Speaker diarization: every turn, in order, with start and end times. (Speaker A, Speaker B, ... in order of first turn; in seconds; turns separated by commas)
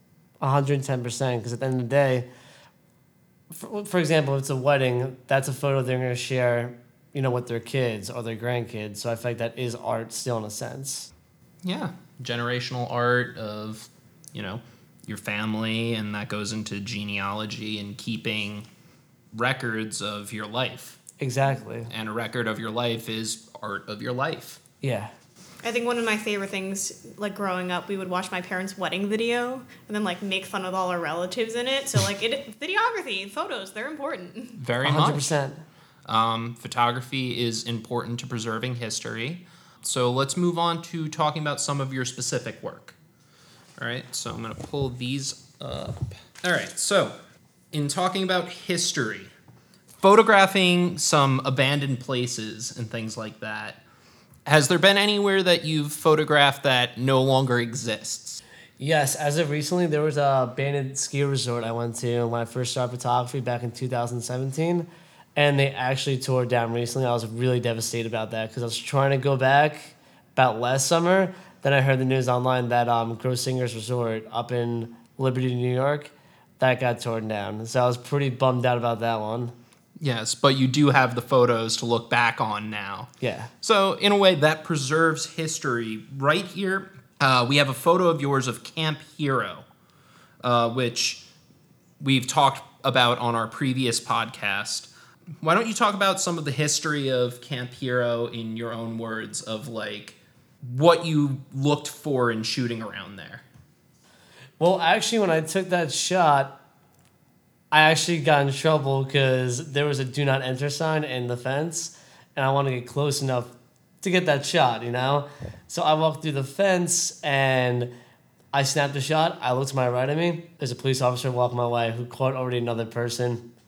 Speaker A: 0.4-2.2, Speaker A: 3.5-11.1, Speaker B: 11.6-18.6, Speaker B: 19.3-21.0, Speaker A: 21.2-21.9, Speaker B: 21.9-24.6, Speaker A: 24.8-25.1, Speaker C: 25.6-34.6, Speaker B: 34.6-35.3, Speaker A: 34.8-35.6, Speaker B: 36.1-42.9, Speaker B: 43.8-47.1, Speaker B: 47.7-49.3, Speaker B: 50.0-53.8, Speaker B: 54.5-58.4, Speaker A: 58.8-79.5, Speaker B: 80.0-83.1, Speaker A: 83.2-83.5, Speaker B: 83.6-89.7, Speaker B: 90.4-91.2, Speaker B: 92.0-94.9, Speaker B: 95.4-103.4, Speaker A: 104.6-106.6, Speaker A: 107.7-117.9, Speaker A: 118.5-123.5